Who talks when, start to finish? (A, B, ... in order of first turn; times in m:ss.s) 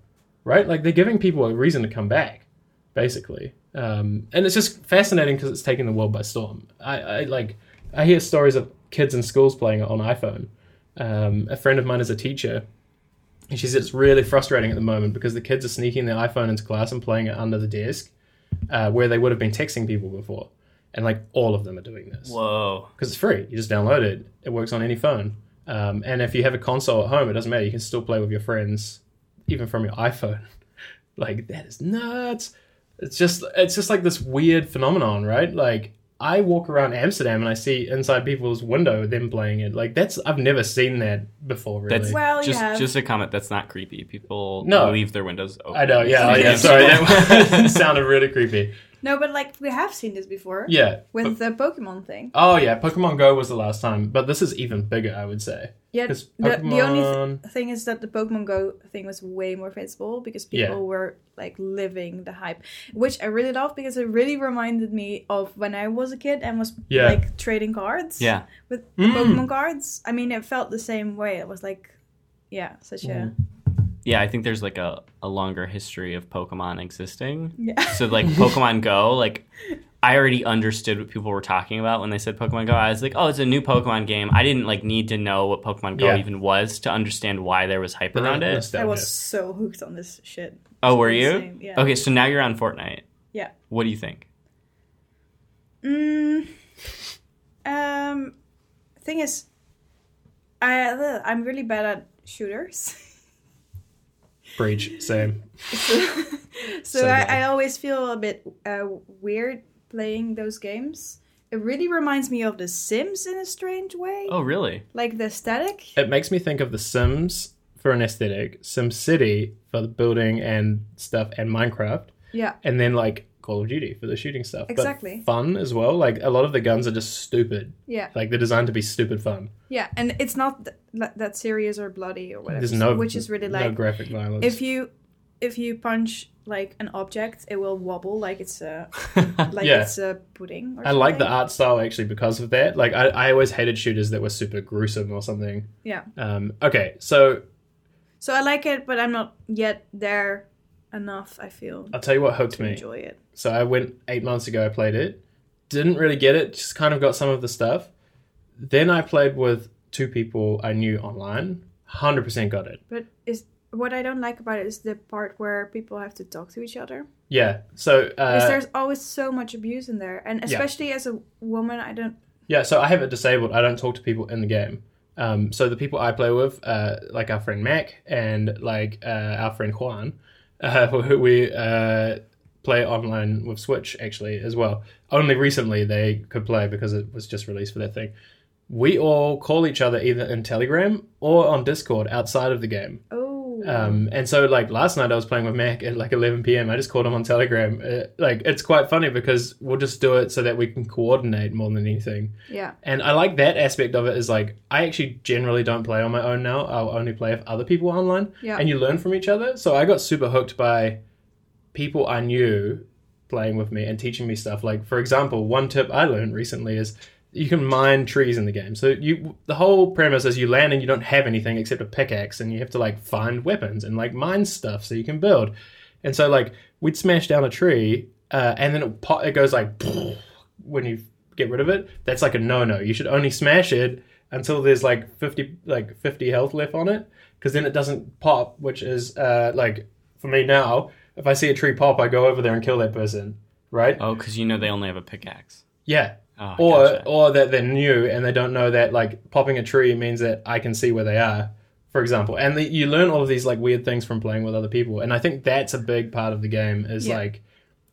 0:00.4-0:12.6 A
0:13.5-0:18.1 A
0:18.7-0:22.4 A
0:22.2-0:22.9 B
0:23.0-0:30.4 A
0:31.2-0:42.2 A
0:41.9-0:47.8 B
0:42.0-0:42.9 C
0:44.6-0:45.0 A
0:45.7-0:48.7 A
0:46.1-0:47.1 C
0:49.0-0:52.3 C
0:50.7-0:51.3 A
0:52.3-0:57.4 A
0:55.9-1:11.9 C
1:00.5-1:00.8 A
1:06.9-1:07.2 A
1:08.2-1:08.4 B
1:09.0-1:09.4 A
1:12.5-1:13.3 C
1:13.0-1:13.3 A
1:14.0-1:19.4 B
1:17.6-1:18.3 C
1:20.0-1:28.6 B
1:25.9-1:26.2 A
1:28.1-1:29.1 A
1:28.7-1:31.9 C
1:30.8-1:33.0 B
1:33.7-1:34.2 B
1:35.8-1:36.5 C
1:37.6-1:38.3 C
1:39.0-1:39.5 C
1:40.6-1:43.0 C
1:44.6-1:45.4 A
1:45.7-1:54.4 C
1:46.9-1:47.4 A
1:54.3-1:54.8 B
1:54.9-1:56.0 C
1:56.0-2:02.1 A
2:02.6-2:09.5 A
2:04.7-2:05.2 C
2:07.9-2:08.1 C
2:09.7-2:13.8 C
2:12.5-2:14.6 A
2:14.4-2:14.9 C
2:15.4-2:21.3 C
2:19.6-2:19.9 A
2:20.8-2:27.4 A
2:28.2-2:32.0 C
2:31.9-2:37.9 A
2:32.5-2:33.2 C
2:38.6-2:42.8 A
2:42.9-2:47.1 C
2:47.3-2:48.6 A
2:48.3-2:52.2 C
2:52.5-3:08.1 A
3:08.7-3:13.0 A
3:13.1-3:14.0 C
3:13.6-3:31.0 A
3:22.5-3:22.7 C
3:31.7-3:45.5 A
3:46.0-4:04.0 A
4:04.0-4:05.6 B
4:05.8-4:17.4 A
4:06.4-4:07.1 B